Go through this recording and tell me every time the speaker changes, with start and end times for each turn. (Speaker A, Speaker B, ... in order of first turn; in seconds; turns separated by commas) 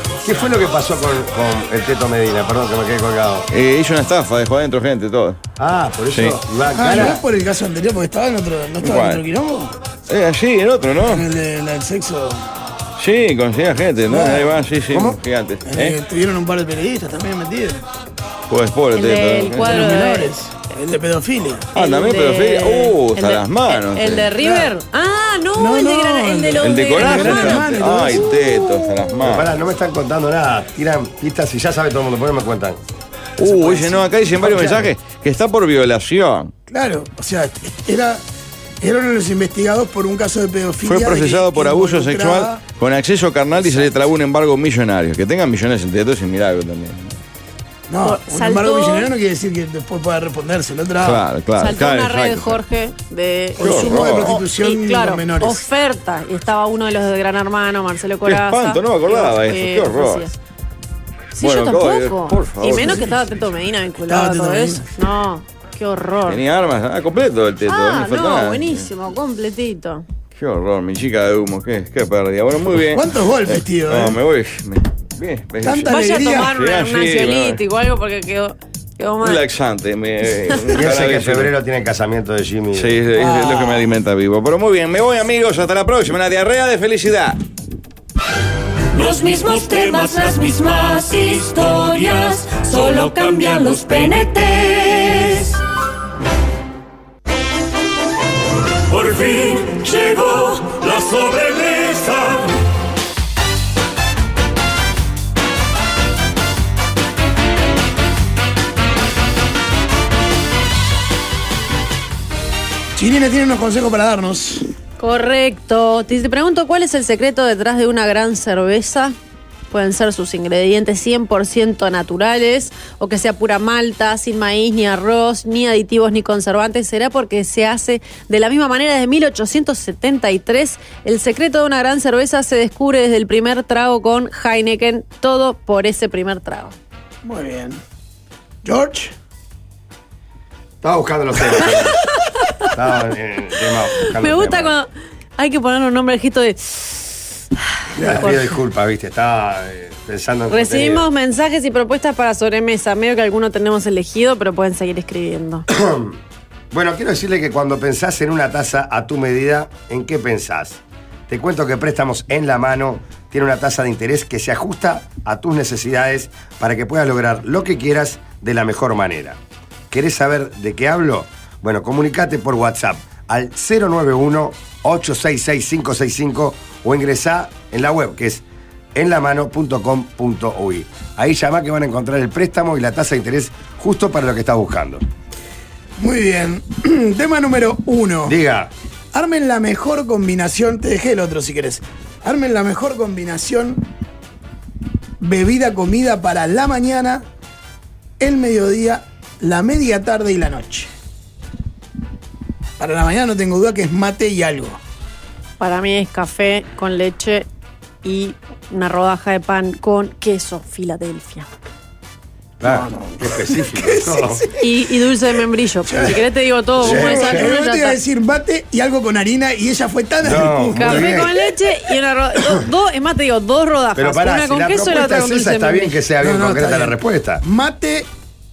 Speaker A: 0.2-3.5, Speaker B: 3.5-5.4, Speaker A: 5.6-7.2, Speaker B: 6.1-6.4, Speaker C: 6.7-9.8, Speaker B: 8.8-9.2, Speaker B: 10.1-11.3, Speaker C: 11.0-12.5, Speaker B: 13.0-16.0, Speaker C: 14.1-14.5, Speaker A: 14.9-15.2, Speaker C: 15.7-17.8, Speaker B: 18.5-19.8, Speaker D: 18.9-20.3, Speaker C: 19.6-21.7, Speaker B: 21.8-24.4, Speaker D: 21.8-27.7, Speaker C: 25.6-28.4, Speaker B: 26.6-29.6, Speaker A: 29.2-32.8, Speaker B: 33.4-36.5, Speaker C: 33.4-34.0, Speaker A: 34.4-34.8, Speaker C: 36.7-38.2, Speaker C: 38.8-42.6, Speaker B: 40.8-47.1, Speaker C: 43.6-43.9, Speaker C: 47.9-51.2, Speaker D: 48.0-49.1, Speaker B: 51.0-52.6, Speaker D: 51.6-60.3, Speaker C: 53.6-55.7, Speaker B: 53.6-54.4, Speaker B: 58.2-60.3, Speaker D: 61.4-66.4, Speaker B: 61.4-63.2, Speaker C: 62.7-63.1, Speaker C: 64.1-64.8, Speaker B: 66.3-68.9, Speaker D: 67.7-70.0, Speaker B: 70.3-77.6, Speaker C: 72.9-74.2, Speaker C: 75.6-76.5, Speaker D: 75.9-79.4, Speaker B: 79.2-81.5, Speaker A: 80.8-83.0, Speaker B: 82.8-87.4, Speaker C: 83.1-83.9, Speaker E: 88.9-95.6, Speaker E: 98.9-102.6, Speaker C: 113.0-114.7, Speaker D: 115.0-119.2, Speaker D: 119.7-136.8, Speaker C: 137.2-137.8, Speaker C: 138.6-139.1, Speaker A: 140.8-142.1, Speaker D: 142.4-142.7, Speaker A: 142.7-144.7, Speaker D: 144.0-147.3, Speaker D: 148.0-148.4, Speaker A: 148.0-151.1, Speaker C: 148.0-148.3, Speaker D: 150.5-155.7, Speaker A: 155.7-156.2, Speaker A: 156.7-169.4, Speaker A: 169.9-178.4, Speaker A: 178.9-185.0, Speaker C: 186.0-188.4, Speaker A: 188.2-188.7, Speaker C: 189.1-193.9, Speaker C: 195.2-197.3, Speaker C: 198.2-200.9, Speaker C: 202.8-204.8, Speaker D: 205.6-207.5, Speaker D: 208.0-211.5, Speaker A: 212.6-214.5, Speaker C: 212.6-215.0, Speaker D: 214.6-218.0, Speaker C: 215.8-216.2, Speaker C: 216.8-221.3, Speaker A: 216.8-217.5, Speaker A: 220.2-221.3, Speaker D: 220.8-226.0, Speaker A: 224.0-227.4, Speaker C: 226.2-228.1